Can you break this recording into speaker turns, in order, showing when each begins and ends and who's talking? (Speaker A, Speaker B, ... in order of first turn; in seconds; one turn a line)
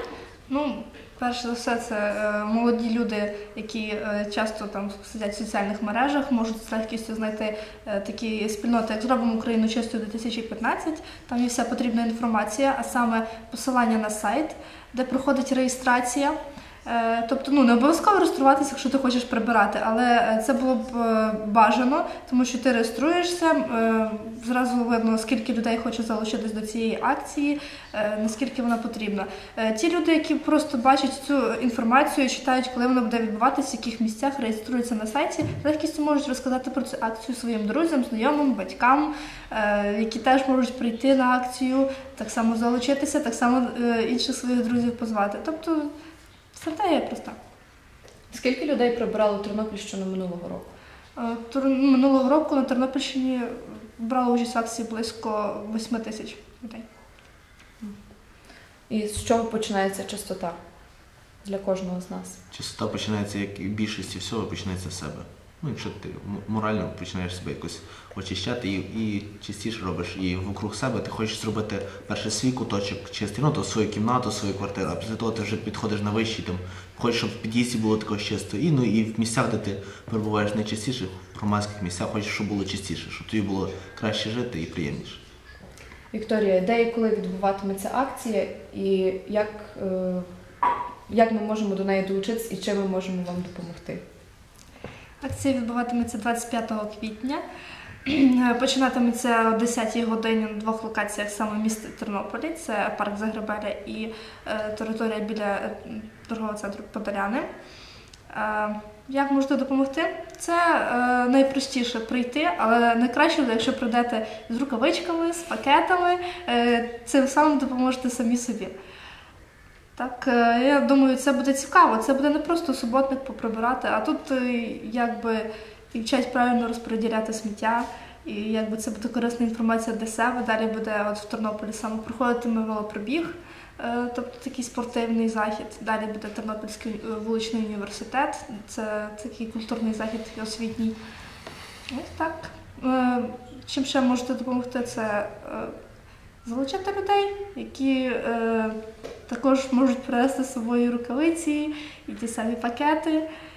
Speaker A: 0.5-45.9
Speaker A: 46.5-47.4
Speaker B: 48.3-50.7
Speaker A: 51.2-56.9
Speaker B: 58.9-60.6
Speaker B: 61.4-62.4
Speaker C: 62.5-85.2
Speaker B: 86.1-90.3
Speaker B: 91.1-94.0
Speaker A: 95.2-97.4
Speaker A: 98.0-107.5
Speaker A: 108.3-118.7
Speaker A: 120.0-141.0
Speaker A: 141.9-145.7
Speaker A: 146.4-148.8
Speaker A: 149.3-153.3